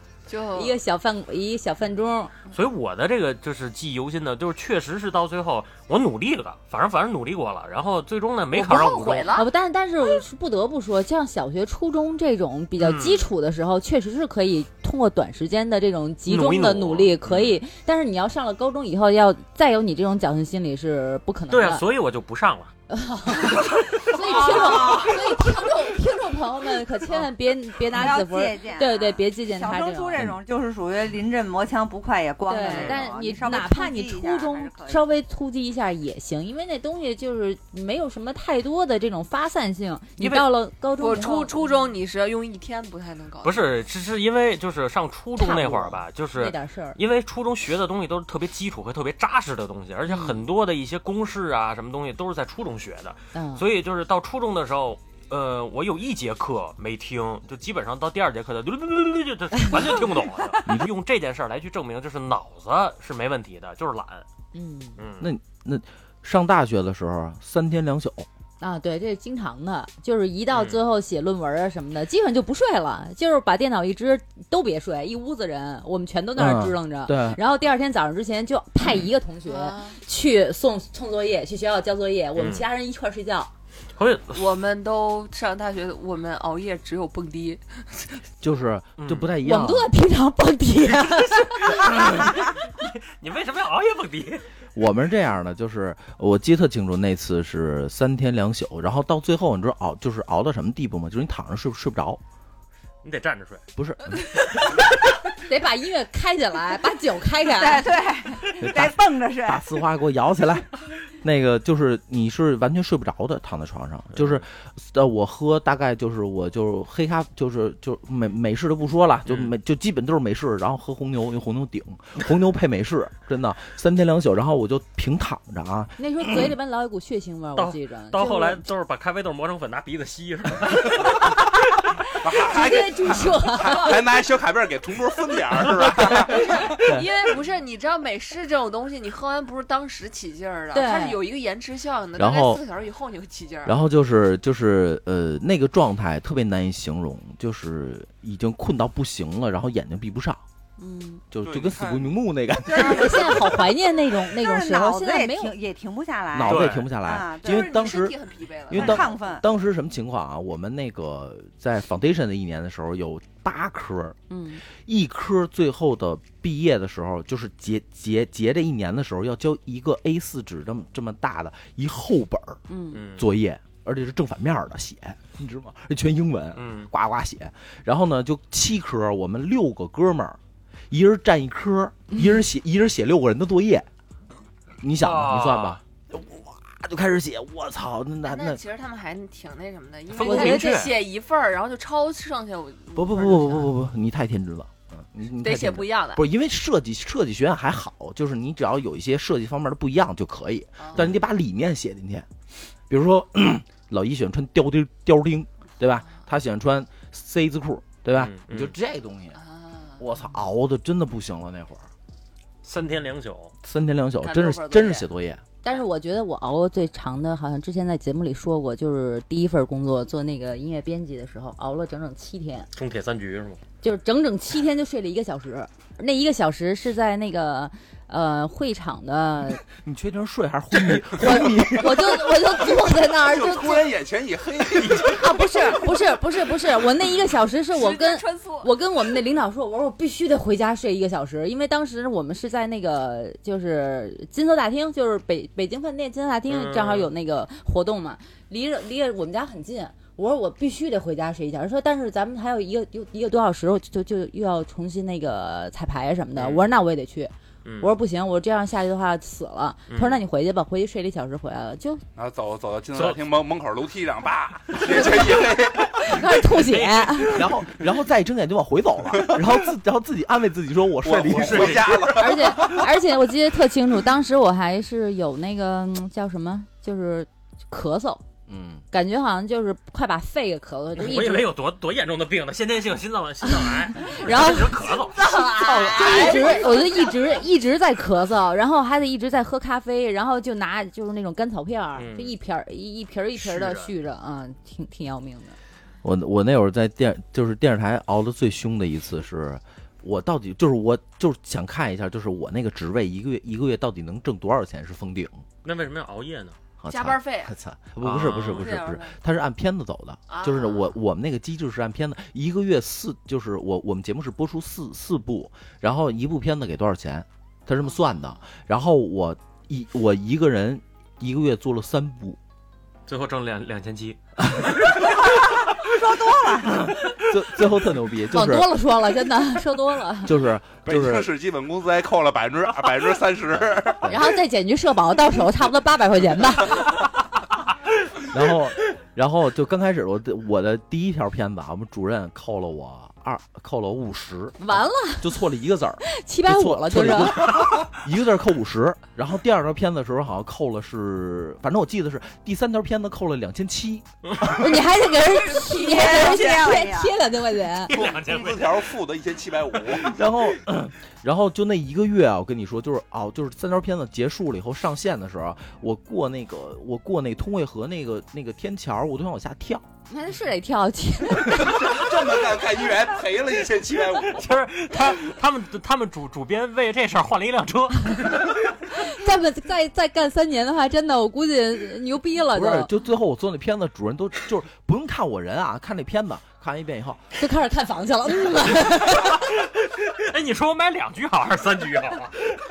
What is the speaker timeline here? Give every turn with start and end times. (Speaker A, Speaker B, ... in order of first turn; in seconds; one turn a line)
Speaker A: 0.3-0.8
Speaker B: 0.5-2.3
Speaker C: 2.5-9.3
Speaker A: 8.5-9.5
Speaker B: 9.3-21.8
Speaker C: 12.8-13.3
Speaker C: 16.2-17.6
Speaker C: 21.5-22.7
Speaker B: 22.9-30.2
Speaker D: 24.2-25.1
Speaker A: 24.2-25.1
Speaker D: 27.9-35.0
Speaker B: 32.5-41.9
Speaker C: 32.7-33.0
Speaker A: 40.2-40.5
Speaker A: 41.0-43.7
Speaker C: 43.4-64.2
Speaker B: 45.4-47.0
Speaker B: 50.1-50.4
Speaker B: 53.3-53.6
Speaker E: 60.6-60.9
Speaker B: 64.5-65.0
Speaker C: 65.0-65.3
Speaker E: 65.2-68.3
Speaker B: 68.6-83.5
Speaker C: 70.5-70.8
Speaker E: 76.4-77.4
Speaker A: 79.5-80.0
Speaker C: 82.4-82.6
Speaker C: 84.0-84.4
Speaker A: 84.3-88.2
Speaker E: 88.4-89.9
Speaker C: 89.0-89.3
Speaker B: 89.4-92.3
Speaker C: 91.2-94.5
Speaker E: 94.7-102.2
Speaker C: 103.0-103.6
Speaker E: 103.8-104.6
Speaker B: 105.3-107.9
Speaker D: 107.6-109.7
Speaker E: 108.6-110.7
Speaker E: 111.2-126.5
Speaker C: 114.2-114.4
Speaker C: 119.3-119.5
Speaker B: 126.0-128.6
Speaker C: 127.5-131.2
Speaker F: 132.2-136.8
Speaker B: 132.3-134.0
Speaker A: 136.3-143.8
Speaker B: 140.7-141.2
Speaker E: 142.2-142.6
Speaker E: 143.6-150.4
Speaker B: 150.8-151.2
Speaker E: 151.3-153.5
Speaker F: 151.4-152.2
Speaker B: 152.7-155.6
Speaker D: 152.8-153.3
Speaker D: 154.3-157.8
Speaker E: 156.3-158.2
Speaker C: 156.4-156.9
Speaker A: 157.4-159.4
Speaker E: 158.7-164.2
Speaker D: 158.7-159.4
Speaker B: 164.3-164.6
Speaker E: 164.7-172.6
Speaker B: 172.7-173.0
Speaker C: 172.9-173.3
Speaker E: 173.1-180.4
Speaker C: 176.6-176.9
Speaker E: 180.9-183.9
Speaker E: 184.8-188.6
Speaker C: 185.0-185.8
Speaker A: 188.2-193.7
Speaker C: 190.1-191.0
Speaker B: 190.2-190.6
Speaker E: 192.9-202.3
Speaker A: 195.4-196.2
Speaker A: 200.8-201.1
Speaker C: 200.9-201.2
Speaker E: 202.9-209.4
Speaker C: 208.1-208.7
Speaker A: 209.3-210.0
Speaker E: 210.0-211.9
Speaker C: 212.6-213.5
Speaker E: 213.6-215.4
Speaker A: 214.2-215.1
Speaker B: 215.6-222.7
Speaker C: 222.7-223.6
Speaker B: 223.8-229.6
Speaker E: 229.8-232.4
Speaker B: 231.1-233.9
Speaker F: 233.1-235.8
Speaker B: 234.9-262.0
Speaker A: 237.7-238.7
Speaker C: 246.5-247.1
Speaker C: 256.4-256.6
Speaker C: 257.6-257.9
Speaker C: 259.9-260.2
Speaker F: 262.1-266.3
Speaker C: 262.9-263.2
Speaker B: 264.8-267.4
Speaker C: 266.6-267.3
Speaker E: 267.3-272.1
Speaker F: 271.0-272.8
Speaker C: 271.3-272.1
Speaker B: 272.1-278.2
Speaker E: 278.5-278.8
Speaker B: 278.9-281.5
Speaker C: 280.9-285.3
Speaker B: 283.5-295.6
Speaker A: 285.2-287.0
Speaker D: 285.8-286.4
Speaker C: 292.0-292.3
Speaker C: 293.4-293.9
Speaker E: 296.0-305.4
Speaker C: 305.6-306.6
Speaker E: 306.8-322.4
Speaker A: 306.9-307.5
Speaker C: 308.0-308.8
Speaker A: 308.5-309.1
Speaker A: 310.3-310.9
Speaker C: 323.1-324.2
Speaker E: 324.4-324.8
Speaker D: 325.0-326.9
Speaker E: 326.7-328.7
Speaker B: 328.3-330.3
Speaker E: 330.2-331.3
Speaker F: 330.9-334.1
Speaker E: 334.0-334.3
Speaker B: 334.1-337.1
Speaker E: 338.3-354.6
Speaker B: 344.6-345.4
Speaker B: 346.0-347.7
Speaker B: 354.4-357.9
Speaker D: 355.5-357.1
Speaker C: 357.9-358.9
Speaker F: 357.9-360.2
Speaker E: 360.0-369.8
Speaker B: 370.1-372.1
Speaker F: 371.5-374.5
Speaker C: 374.2-378.4
Speaker B: 378.1-382.9
Speaker E: 382.5-387.2
Speaker B: 387.4-389.4
Speaker C: 389.4-392.4